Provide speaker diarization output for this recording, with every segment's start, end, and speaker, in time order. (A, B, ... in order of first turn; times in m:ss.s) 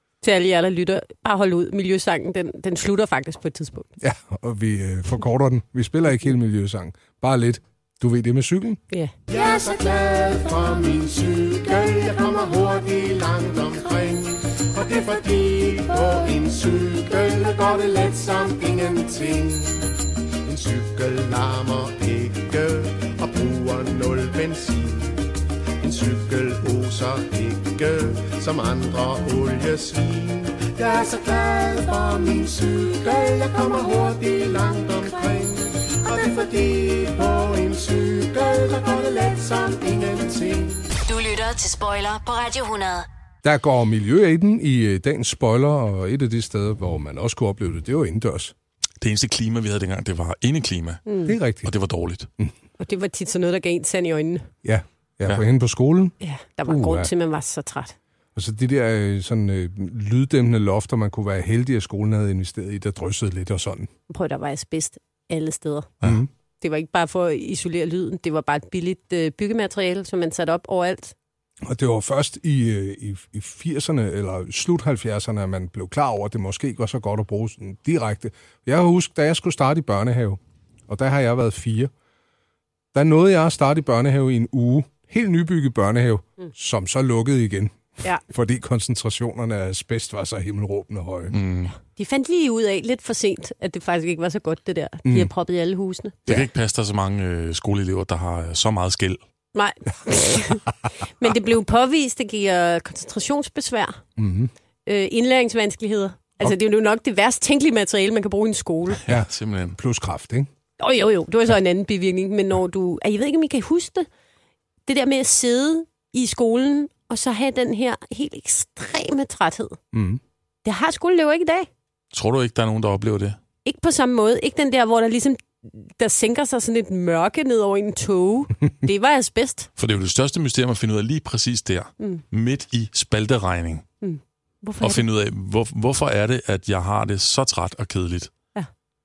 0:00.2-0:03.9 A
0:04.0-0:08.8 B
0:09.3-0:19.9 C
0:20.4-0:25.3 C
0:25.8-0:40.9 C
0:41.1-0:43.1 D
0:43.4-0:48.5 B
0:49.0-0:51.0 E
0:51.1-0:51.3 A
0:51.3-0:51.7 B
0:51.6-0:52.3 E
0:52.8-0:54.5 A
0:54.6-0:56.1 B
0:56.2-0:57.9 A
0:56.6-0:57.1 B
0:58.4-1:03.9 B
1:04.1-1:05.9 A
1:06.0-1:06.3 B
1:06.6-1:11.1 A
1:11.6-1:21.9 B
1:22.9-1:31.3 B
1:31.3-1:31.7 E
1:31.8-1:36.4 A
1:35.0-1:35.3 B
1:36.3-1:39.2 E
1:39.5-1:40.6 A
1:41.2-1:44.0 A
1:44.2-1:44.5 B
1:44.9-1:49.0 A
1:49.0-1:49.8 E
1:49.1-1:50.5 B
1:50.8-1:54.1 A
1:54.9-1:59.8 A
1:59.9-2:00.2 B
2:00.6-2:01.7 A
2:02.1-2:03.4 E
2:03.6-2:09.7 A
2:09.8-2:13.8 E
2:14.0-2:15.1 A
2:14.8-2:18.3 E